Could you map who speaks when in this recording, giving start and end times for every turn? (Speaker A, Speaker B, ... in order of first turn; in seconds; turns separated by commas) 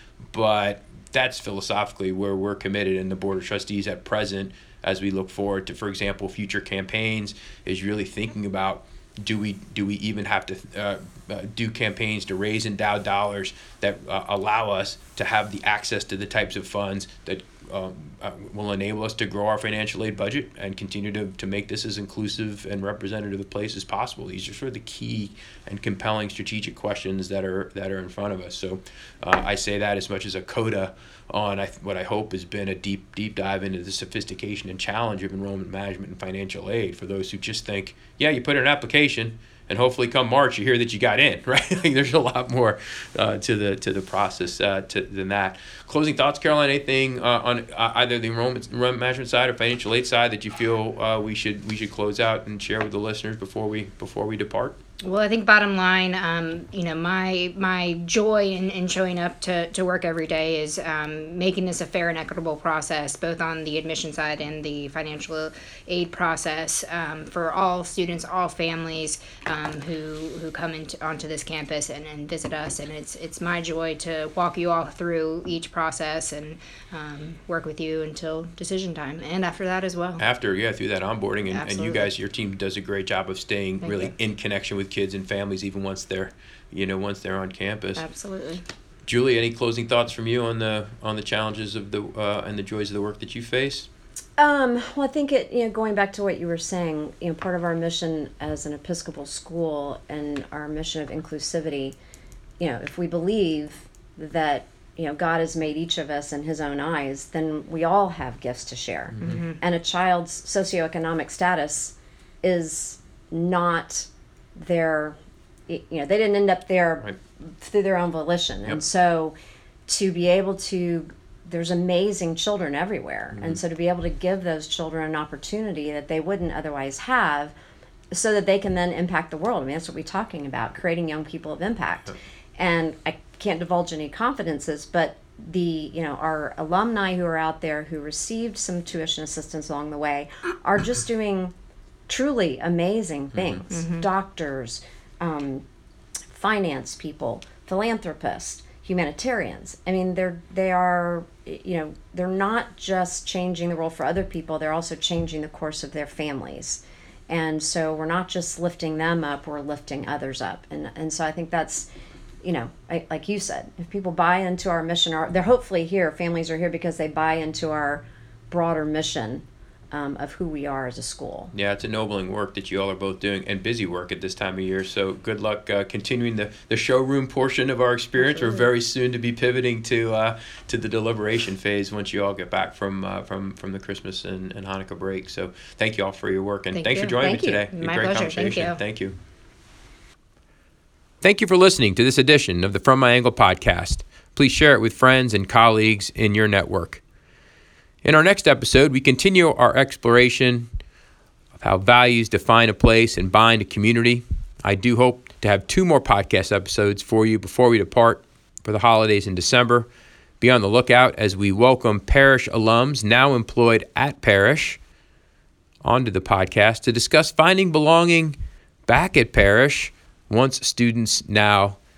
Speaker A: 0.3-54.8, Speaker B: 55.0-80.2, Speaker A: 80.2-88.0, Speaker B: 81.5-82.1, Speaker B: 83.8-84.1, Speaker B: 88.0-88.7, Speaker A: 89.0-93.9, Speaker C: 94.4-102.0, Speaker C: 102.6-115.2, Speaker A: 109.2-109.4, Speaker B: 109.2-109.6, Speaker C: 115.7-119.3, Speaker C: 119.9-127.5, Speaker A: 123.3-123.6, Speaker C: 128.1-141.5, Speaker C: 142.1-145.7, Speaker B: 143.7-144.1, Speaker C: 146.3-161.9, Speaker C: 162.4-171.5, Speaker A: 171.5-189.2, Speaker B: 178.2-178.7, Speaker B: 186.7-188.8, Speaker A: 191.2-197.0, Speaker A: 198.0-200.7, Speaker A: 201.6-209.9, Speaker A: 210.4-214.8, Speaker A: 215.8-221.8